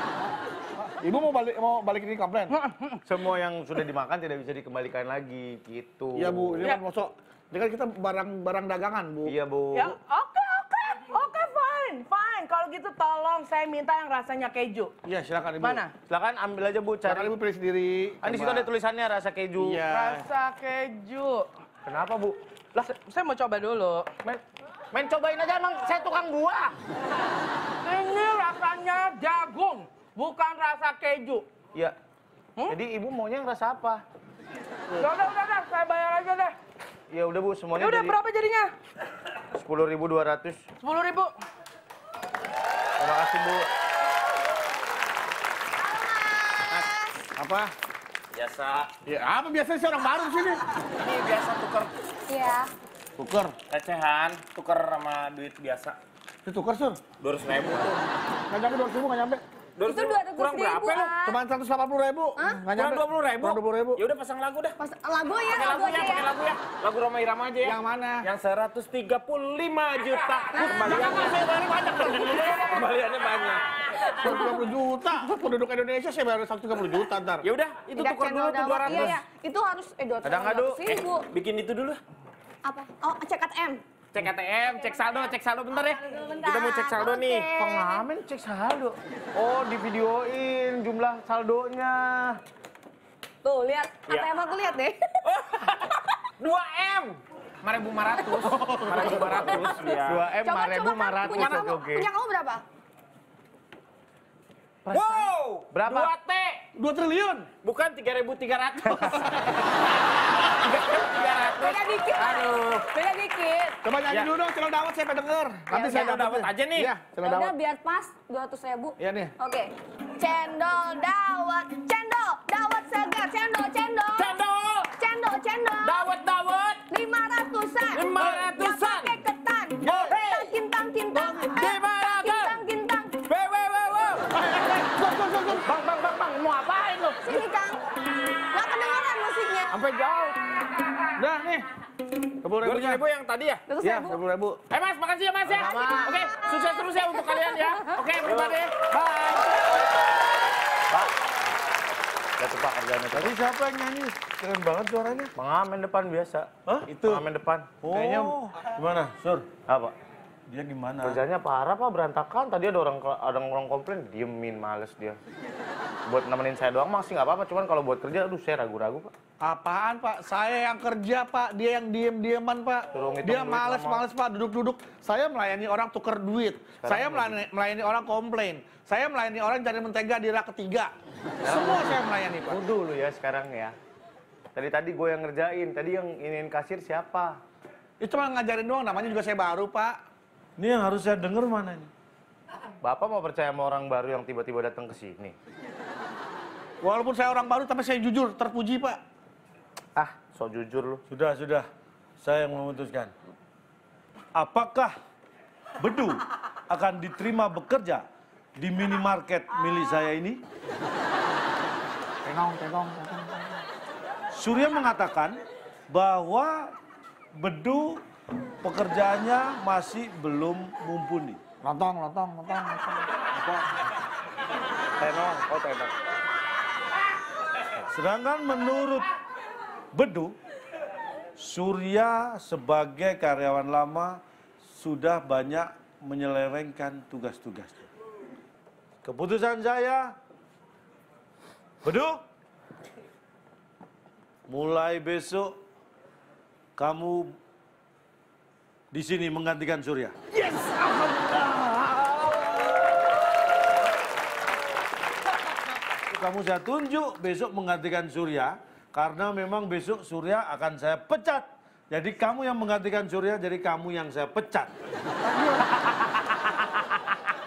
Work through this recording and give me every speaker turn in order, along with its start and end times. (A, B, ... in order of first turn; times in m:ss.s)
0:00.8-0:02.5 A
0:02.5-0:03.0 B
0:03.0-0:06.6 C
0:06.1-0:09.3 A
0:09.2-0:09.9 C
0:09.7-0:14.9 B
0:15.0-0:15.8 A
0:15.6-0:15.9 B
0:16.1-0:17.3 C
0:17.0-0:18.6 A
0:18.2-0:19.8 C
0:19.6-0:20.3 A
0:19.9-0:21.5 B
0:21.8-0:22.9 C
0:22.8-0:24.1 B
0:24.2-0:26.7 C
0:27.8-0:31.4 B
0:32.7-0:34.0 C
0:34.9-0:36.5 B
0:37.1-0:38.2 C
0:37.8-0:38.7 B
0:39.5-0:40.6 C
0:40.8-0:41.3 B
0:43.0-0:43.7 C
0:46.2-0:46.6 D
0:47.4-0:47.7 A
0:48.3-0:48.9 E
0:49.0-0:50.6 A
0:51.0-0:52.1 E
0:52.3-0:52.7 D
0:53.2-0:53.5 A
0:53.7-0:56.0 E
0:56.4-0:57.0 A
0:57.2-0:58.0 E
0:58.5-0:59.4 A
0:59.8-1:01.2 E
0:59.8-1:01.4 D
1:01.2-1:04.0 A
1:02.7-1:04.8 E
1:04.8-1:06.4 D
1:05.4-1:14.6 E
1:07.6-1:08.3 A
1:10.5-1:10.9 D
1:14.2-1:17.4 A
1:17.4-1:19.3 E
1:18.0-1:21.3 D
1:20.2-1:20.8 C
1:20.8-1:22.0 E
1:22.6-1:23.8 D
1:24.1-1:27.6 E
1:26.1-1:28.0 D
1:27.6-1:32.4 C
1:33.4-1:35.3 D
1:34.0-1:34.3 E
1:35.3-1:40.3 E
1:38.2-1:42.6 D
1:38.9-1:42.1 C
1:41.3-1:41.8 E
1:44.8-1:46.1 C
1:44.9-1:46.6 E
1:46.7-1:47.5 A
1:47.6-1:49.3 E
1:50.6-1:53.7 E
1:50.8-1:53.8 D
1:53.8-1:57.5 A
1:55.7-1:57.0 E
1:55.9-1:56.3 D
1:57.2-2:06.1 D
1:59.0-1:59.3 A
2:04.1-2:04.9 E
2:05.8-2:06.8 E
2:06.9-2:13.3 D
2:07.9-2:09.2 E
2:09.8-2:10.2 A
2:10.3-2:10.5 E
2:11.1-2:12.6 E
2:13.2-2:14.6 E
2:14.4-2:15.7 A
2:15.6-2:17.4 E
2:17.2-2:17.8 D
2:18.5-2:19.7 D
2:19.7-2:20.4 E
2:21.2-2:21.6 A
2:22.4-2:23.0 A
2:22.6-2:23.8 E
2:23.7-2:24.1 D
2:23.8-2:24.6 A
2:24.7-2:29.7 E
2:25.4-2:26.3 C
2:32.4-2:33.3 C
2:33.1-2:35.3 F
2:35.4-2:36.5 C
2:36.6-2:36.9 F
2:36.9-2:37.2 A
2:37.0-2:37.9 C
2:37.8-2:39.5 F
2:39.7-2:39.9 C
2:40.5-2:41.2 F
2:41.0-2:45.2 C
2:46.0-2:49.1 C
2:49.4-3:00.9 A
2:52.9-2:54.0 C
2:56.8-2:57.4 C
3:01.4-3:02.6 A
3:01.4-3:03.7 C
3:04.5-3:07.4 C
3:08.0-3:09.9 A
3:10.6-3:11.9 F
3:12.8-3:15.3 C
3:16.8-3:19.0 A
3:20.0-3:21.0 C
3:21.1-3:21.7 F
3:22.2-3:23.1 F
3:24.3-3:25.0 F
3:25.8-3:30.4 F
3:32.2-3:33.6 A
3:34.3-3:36.7 F
3:37.3-3:38.0 F
3:38.6-3:41.4 F
3:41.6-3:43.1 A
3:45.0-3:45.9 E
3:47.9-3:49.1 F
3:49.9-3:50.4 F
3:51.4-3:57.9 F
3:59.0-4:00.2 F
4:01.8-4:02.2 F
4:04.5-4:05.6 F
4:06.8-4:07.3 F
4:08.9-4:12.4 F
4:16.1-4:24.7 F
4:25.2-4:25.6 A